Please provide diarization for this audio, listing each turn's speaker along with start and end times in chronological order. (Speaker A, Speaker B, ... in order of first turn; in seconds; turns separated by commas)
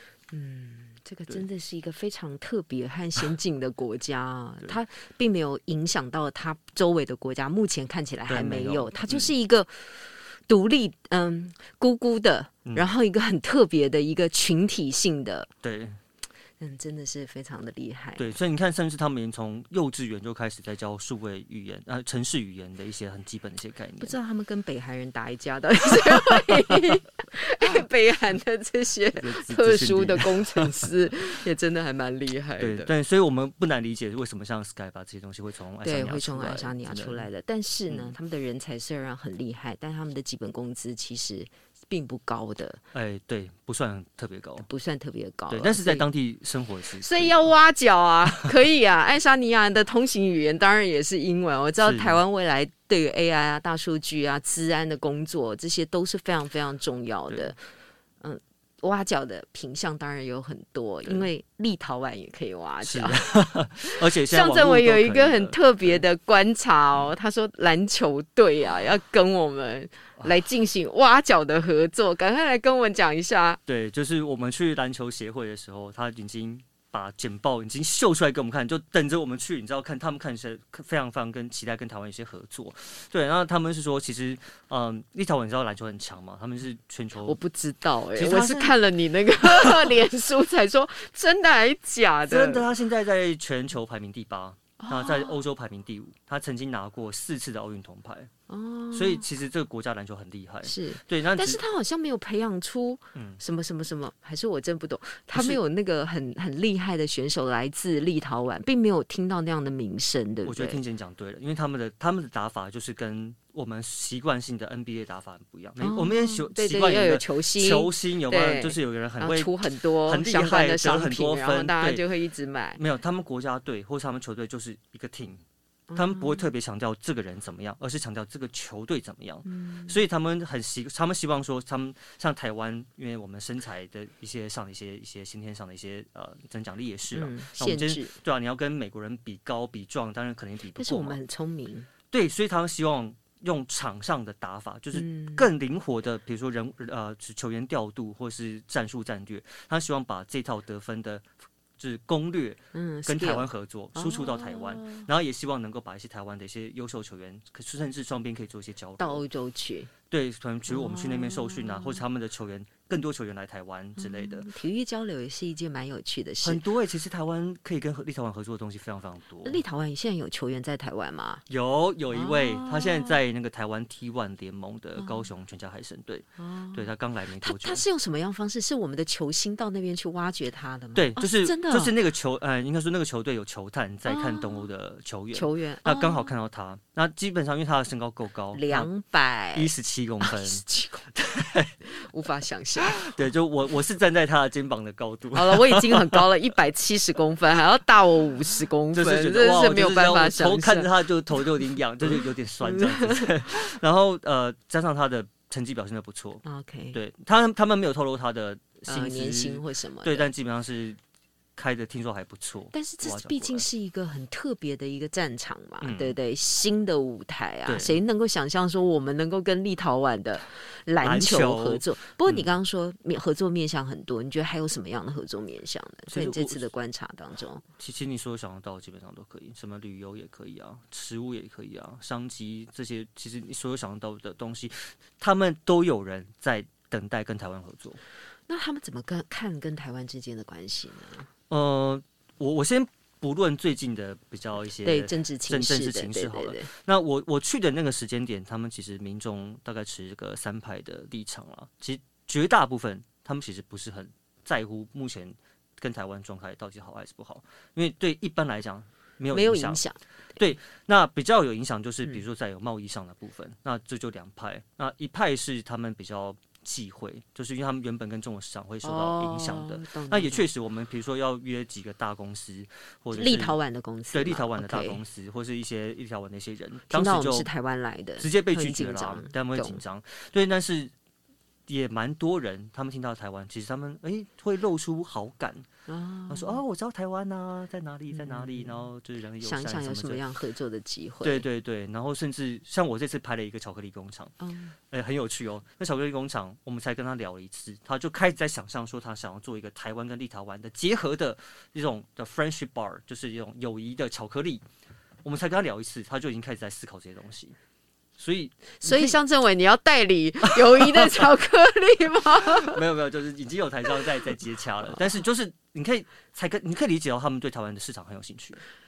Speaker A: 0.3-15.5, Speaker B: 8.3-9.3, Speaker B: 12.6-12.9, Speaker B: 15.6-16.0, Speaker A: 16.6-18.3, Speaker B: 18.2-24.1, Speaker A: 24.0-32.9, Speaker B: 26.0-26.7, Speaker B: 29.1-30.9, Speaker B: 32.6-37.2, Speaker A: 35.8-42.8, Speaker B: 37.9-38.1, Speaker B: 42.9-44.7, Speaker A: 44.6-46.0, Speaker B: 45.5-47.5, Speaker A: 47.0-57.6, Speaker B: 51.8-52.2, Speaker A: 58.2-73.6, Speaker B: 62.8-66.0, Speaker B: 73.7-87.4, Speaker A: 87.2-92.7, Speaker B: 88.1-88.7, Speaker B: 89.6-89.9, Speaker B: 92.3-98.3, Speaker A: 94.8-95.4, Speaker A: 98.5-99.2, Speaker B: 98.9-101.6, Speaker A: 100.6-110.8, Speaker B: 103.1-103.4, Speaker B: 105.3-105.6, Speaker B: 110.4-122.0, Speaker A: 115.8-122.8, Speaker B: 122.8-125.4, Speaker A: 125.9-126.5, Speaker B: 125.9-141.2, Speaker A: 129.4-130.0, Speaker A: 137.1-138.1, Speaker A: 140.8-141.9, Speaker B: 142.1-151.2, Speaker A: 144.9-145.5, Speaker B: 151.8-159.2, Speaker A: 152.7-155.1, Speaker A: 159.0-159.9, Speaker B: 160.1-164.5, Speaker A: 160.7-162.0, Speaker A: 164.0-166.6, Speaker B: 166.4-169.6, Speaker A: 169.4-171.4, Speaker B: 171.5-177.8, Speaker A: 172.1-173.2, Speaker A: 175.0-175.3, Speaker A: 176.4-181.9, Speaker B: 180.9-188.9, Speaker A: 184.1-184.7, Speaker A: 185.3-186.3, Speaker A: 188.5-191.1, Speaker B: 189.5-191.7, Speaker A: 191.8-193.1, Speaker B: 192.8-196.2, Speaker A: 195.3-201.0, Speaker B: 198.9-211.0, Speaker A: 202.6-203.3, Speaker A: 206.4-207.0, Speaker A: 208.8-210.3, Speaker B: 211.6-213.7, Speaker A: 212.7-227.6, Speaker B: 215.8-216.2, Speaker B: 217.7-218.0, Speaker B: 221.0-222.6, Speaker B: 226.1-226.6, Speaker B: 227.8-238.0, Speaker A: 238.5-241.3, Speaker B: 241.5-259.8, Speaker A: 244.8-246.7, Speaker A: 259.3-260.0, Speaker B: 260.4-273.6, Speaker A: 268.8-270.4, Speaker A: 273.1-275.0, Speaker B: 274.1-277.5, Speaker A: 276.9-279.8, Speaker B: 278.2-280.9, Speaker B: 281.7-285.6, Speaker A: 285.9-286.6, Speaker B: 286.3-290.2, Speaker A: 288.1-288.9, Speaker A: 289.4-291.4, Speaker B: 291.2-294.3, Speaker A: 294.4-294.7, Speaker B: 294.9-304.6, Speaker B: 305.2-307.6, Speaker B: 308.2-309.2, Speaker A: 308.8-312.8, Speaker B: 310.5-311.3, Speaker B: 312.4-318.6